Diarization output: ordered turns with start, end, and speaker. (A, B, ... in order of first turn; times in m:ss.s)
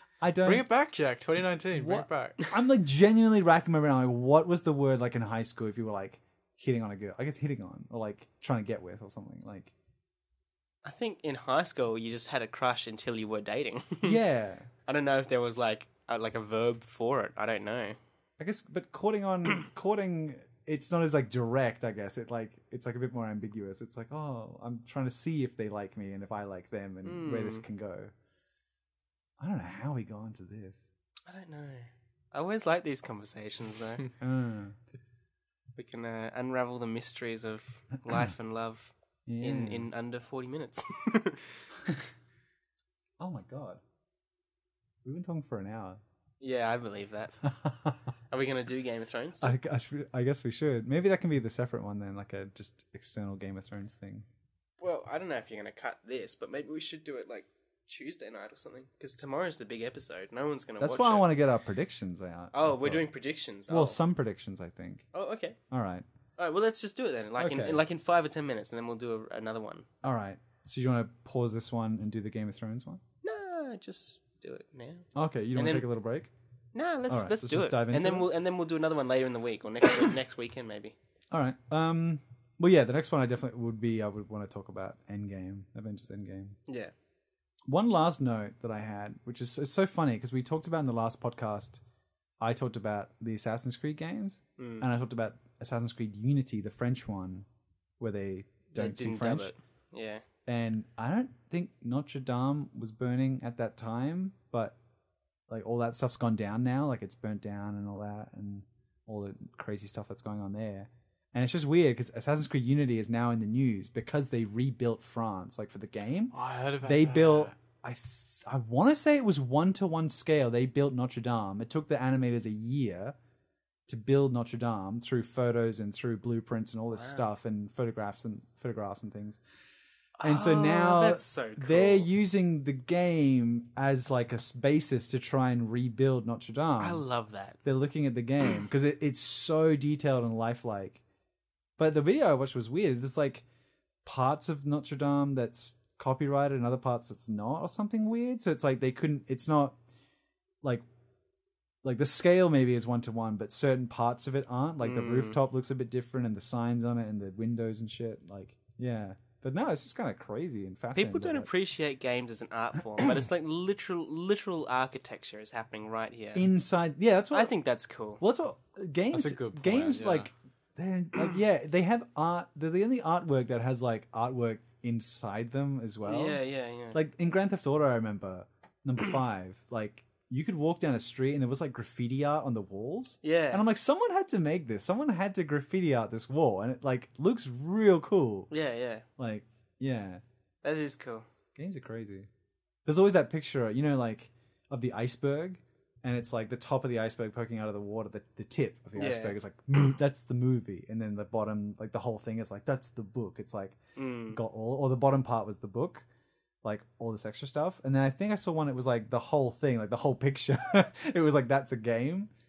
0:00.2-0:00.7 A
0:00.4-0:02.4 B
0:01.8-0:09.7 A
0:10.8-0:14.2 C
0:14.0-0:14.7 A
0:14.9-0:18.0 C
0:18.4-0:28.1 A
0:27.0-0:27.6 C
0:29.4-0:30.8 A
0:31.3-0:34.1 C
0:34.2-0:34.8 A
0:35.8-0:42.0 C
0:39.3-0:39.9 A
0:43.2-0:43.8 A
0:45.0-0:46.0 A
0:46.4-0:47.4 C
0:47.6-0:47.9 A
0:48.3-0:49.6 C
0:49.4-0:54.3 A
0:54.8-1:01.3 C
1:00.8-1:03.0 A
1:02.5-1:04.0 C
1:03.7-1:05.0 A
1:05.1-1:05.6 C
1:05.7-1:06.0 A
1:06.4-1:09.9 C
1:07.4-1:07.8 A
1:10.0-1:13.0 A
1:13.2-1:15.9 C
1:15.2-1:16.3 A
1:16.7-1:21.0 C
1:17.1-1:18.3 A
1:21.3-1:26.6 A
1:26.7-1:26.9 C
1:27.7-1:31.8 A
1:32.4-1:37.5 A
1:34.6-1:34.9 C
1:38.0-1:39.5 A
1:38.7-1:40.2 C
1:40.5-1:44.8 A
1:45.5-2:03.2 A
1:56.3-1:57.5 B
2:03.9-2:09.4 A
2:06.9-2:07.2 C
2:10.2-2:12.1 C
2:10.2-2:17.0 A
2:16.8-2:17.6 C
2:17.6-2:21.0 A
2:21.8-2:23.4 A
2:24.0-2:29.8 A
2:31.8-2:41.5 A
2:34.8-2:35.4 C
2:41.0-2:46.5 C
2:46.4-2:47.5 A
2:47.3-2:48.2 C
2:48.2-2:56.4 A
2:49.1-2:50.3 B
2:56.0-2:57.0 C
2:56.9-3:08.5 A
3:03.2-3:03.6 C
3:08.5-3:09.0 C
3:09.2-3:10.2 A
3:10.6-3:11.3 C
3:11.6-3:12.3 A
3:12.9-3:23.8 A
3:19.0-3:19.4 C
3:24.0-3:24.4 C
3:24.3-3:26.1 A
3:26.6-3:32.3 A